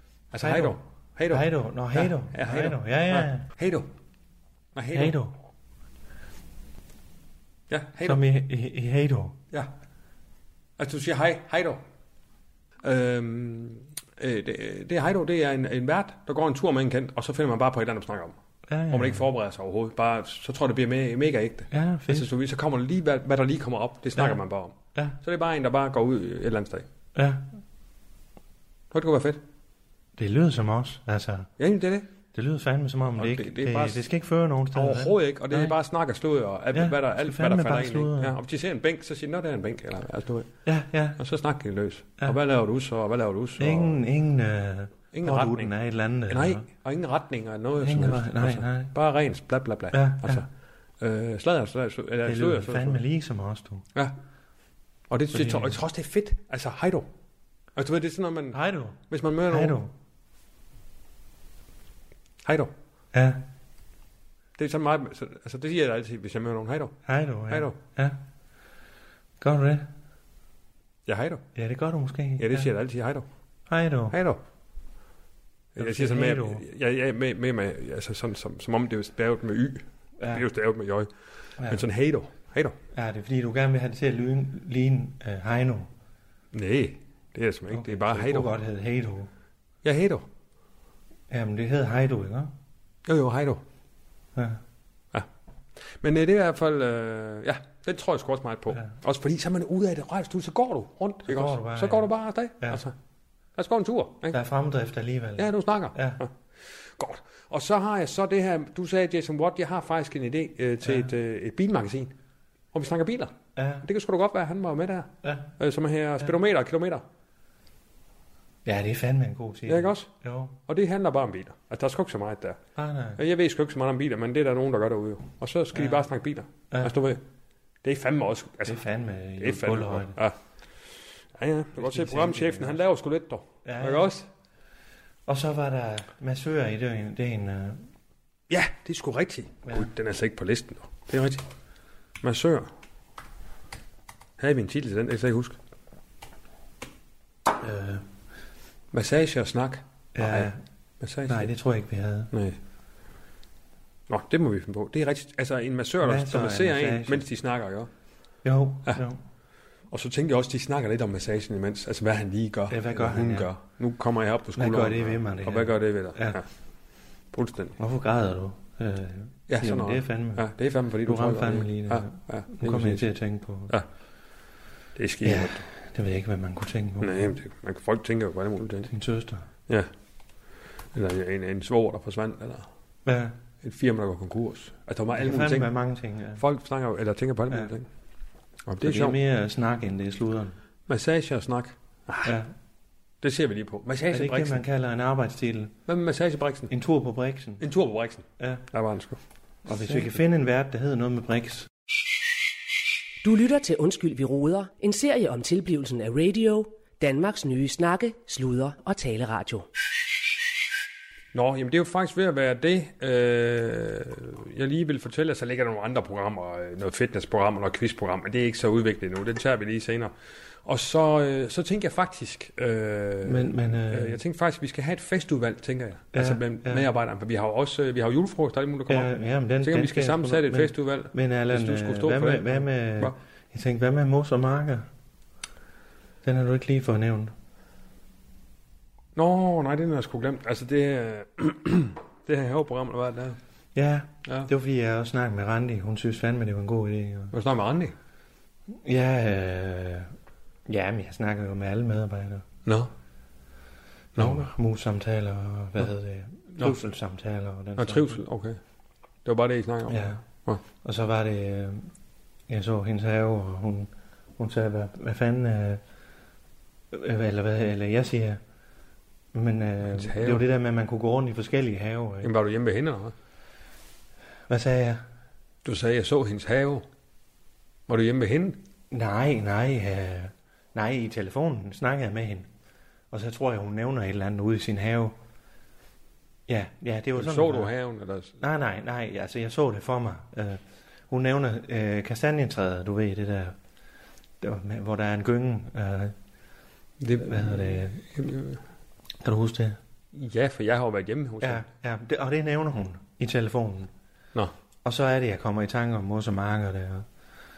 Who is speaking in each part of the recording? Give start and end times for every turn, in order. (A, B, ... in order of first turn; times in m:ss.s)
0:00.3-0:03.9 A
0:00.4-0:00.8 B
0:01.3-0:03.5 B
0:04.8-0:05.2 A
0:04.9-0:05.3 B
0:07.7-0:08.2 A
0:08.0-0:09.4 B
0:10.8-0:11.8 A
0:12.8-0:18.4 A
0:18.7-0:19.3 B
0:18.9-0:26.9 A
0:21.7-0:22.3 B
0:27.2-0:27.5 B
0:28.9-0:29.4 A
0:30.2-0:31.5 B
0:31.6-0:32.1 A
0:32.3-0:35.8 B
0:33.2-0:34.0 A
0:34.7-0:40.5 A
0:36.7-0:38.4 B
0:40.7-0:41.2 B
0:41.2-0:44.0 A
0:43.6-0:46.6 B
0:45.1-0:45.7 A
0:46.3-0:50.5 A
0:47.8-0:48.9 B
0:49.9-0:50.4 B
0:51.0-0:53.0 A
0:52.2-0:53.8 B
0:55.1-0:57.1 A
0:55.3-0:55.8 B
0:57.8-0:59.8 A
0:58.5-0:59.9 B
1:02.4-1:02.7 A
1:03.1-1:03.4 B
1:04.6-1:07.0 A
1:07.1-1:08.2 B
1:07.5-1:07.8 A
1:09.4-1:09.9 B
1:11.1-1:11.4 A
1:11.6-1:12.7 B
1:12.4-1:13.3 A
1:13.7-1:14.2 B
1:14.1-1:14.4 A
1:15.8-1:21.1 A
1:15.8-1:16.6 B
1:20.2-1:20.5 B
1:21.6-1:21.8 B
1:21.6-1:22.8 A
1:22.9-1:25.9 B
1:26.5-1:28.5 A
1:27.7-1:29.3 B
1:29.8-1:30.2 A
1:31.3-1:32.5 B
1:33.1-1:33.6 A
1:34.4-1:34.6 B
1:35.9-1:42.9 A
1:41.3-1:42.1 B
1:43.6-1:44.4 A
1:44.3-1:46.2 B
1:45.4-1:52.1 A
1:50.8-1:51.1 B
1:52.7-1:57.0 A
1:53.6-1:53.8 B
1:55.2-1:55.5 B
1:58.6-2:00.6 B
1:59.7-2:00.1 A
2:00.7-2:02.6 A
2:02.8-2:03.2 B
2:03.2-2:07.2 A
2:05.8-2:06.0 B
2:07.8-2:08.8 A
2:08.7-2:10.2 B
2:09.4-2:10.4 A
2:11.3-2:14.3 A
2:11.8-2:12.8 B
2:13.6-2:14.1 B
2:15.3-2:17.9 B
2:18.5-2:21.4 A
2:22.2-2:22.7 A
2:24.4-2:25.6 A
2:27.5-2:28.0 B
2:28.9-2:31.5 A
2:30.2-2:30.6 B
2:31.3-2:32.3 B
2:32.3-2:32.6 A
2:34.1-2:37.9 A
2:36.0-2:37.3 B
2:38.4-2:39.2 B
2:39.9-2:46.5 A
2:42.7-2:43.5 B
2:44.6-2:46.4 B
2:47.3-2:47.8 A
2:47.8-2:50.5 B
2:49.5-2:53.1 A
2:51.0-2:53.8 B
2:55.0-2:55.6 A
2:55.2-2:57.4 B
2:57.0-2:58.9 A
2:58.9-2:59.5 B
3:00.9-3:02.7 A
3:03.0-3:03.4 B
3:03.6-3:05.7 A
3:05.1-3:06.4 B
3:06.4-3:07.9 A
3:08.7-3:09.2 A
3:08.8-3:10.6 B
3:10.9-3:12.3 A
3:12.2-3:12.5 B
3:13.2-3:14.6 A
3:14.1-3:15.8 B
3:15.9-3:16.7 A
3:16.7-3:17.7 B
3:17.6-3:19.2 A
3:19.7-3:21.7 B
3:23.2-3:29.7 C
3:31.3-3:40.1 A
3:40.6-3:53.1 A
3:43.2-3:44.2 B
3:46.1-3:46.9 B
3:48.9-3:54.9 B
3:56.2-3:57.3 B
3:59.2-4:03.4 A
4:03.8-4:07.3 B
4:04.3-4:04.5 A
4:07.3-4:07.9 A
4:08.7-4:10.1 B
4:10.7-4:12.4 B
4:14.2-4:14.5 A
4:14.2-4:18.2 B
4:17.8-4:18.6 A
4:19.2-4:20.6 A
4:19.9-4:20.2 B
4:20.8-4:21.9 B
4:22.5-4:25.8 B
4:26.9-4:28.4 B
4:29.3-4:32.3 B
4:29.9-4:30.5 A
4:32.2-4:33.1 A
4:34.5-4:35.0 B
4:35.6-4:36.8 A
4:37.9-4:38.6 A
4:38.9-4:42.5 B
4:43.1-4:45.1 B
4:46.5-4:47.7 B
4:47.2-4:48.3 A
4:48.4-4:53.6 B
4:54.4-4:56.2 B
4:57.0-4:58.6 A
4:57.2-4:58.0 B
4:59.2-4:59.8 B
5:00.1-5:01.6 A
5:01.4-5:03.9 B
5:04.8-5:07.1 B